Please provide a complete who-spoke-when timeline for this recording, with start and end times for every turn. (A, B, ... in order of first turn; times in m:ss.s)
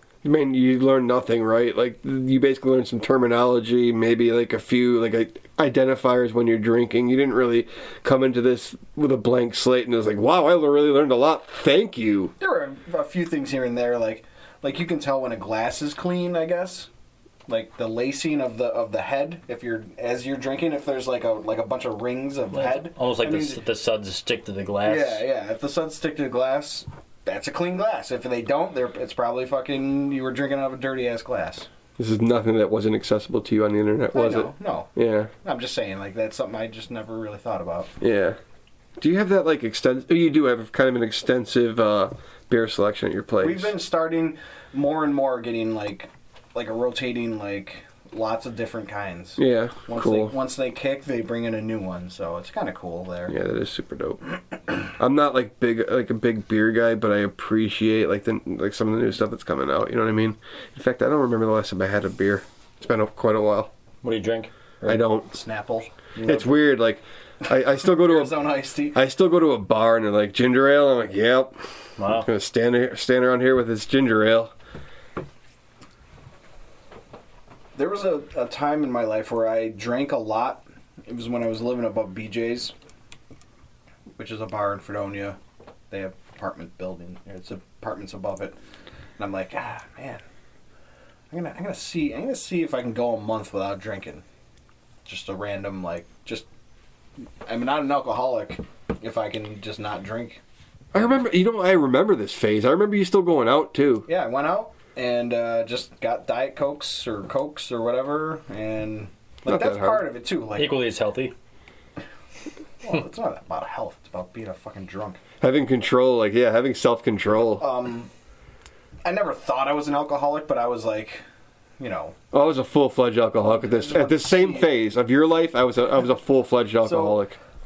0:00.2-0:12.3 A
0:12.4-0:16.9 B
0:17.5-0:23.6 B
0:22.5-0:25.2 C
0:24.8-0:31.7 B
0:32.0-0:35.3 A
0:34.1-0:34.9 B
0:35.4-0:37.9 B
0:38.0-0:38.4 A
0:39.0-0:43.7 A
0:43.4-0:53.3 B
0:49.4-0:50.4 A
0:53.3-0:54.2 A
0:54.9-1:03.7 A
1:04.0-1:04.5 C
1:04.8-1:06.7 B
1:04.8-1:05.3 A
1:06.2-1:11.6 A
1:07.5-1:09.0 B
1:12.0-1:12.3 C
1:12.1-1:14.5 A
1:17.8-1:22.7 B
1:24.2-1:25.4 B
1:25.9-1:28.6 B
1:29.2-1:30.2 B
1:31.3-1:34.2 B
1:35.0-1:36.4 B
1:37.4-1:40.4 B
1:40.9-1:44.1 A
1:44.0-1:50.8 B
1:49.4-1:50.1 A
1:50.5-1:51.3 C
1:52.8-1:55.2 B
1:55.4-1:57.6 A
1:57.6-1:58.1 B
1:59.0-2:01.2 B
2:01.8-2:02.2 B
2:02.3-2:07.4 A
2:03.4-2:04.7 B
2:06.8-2:07.2 B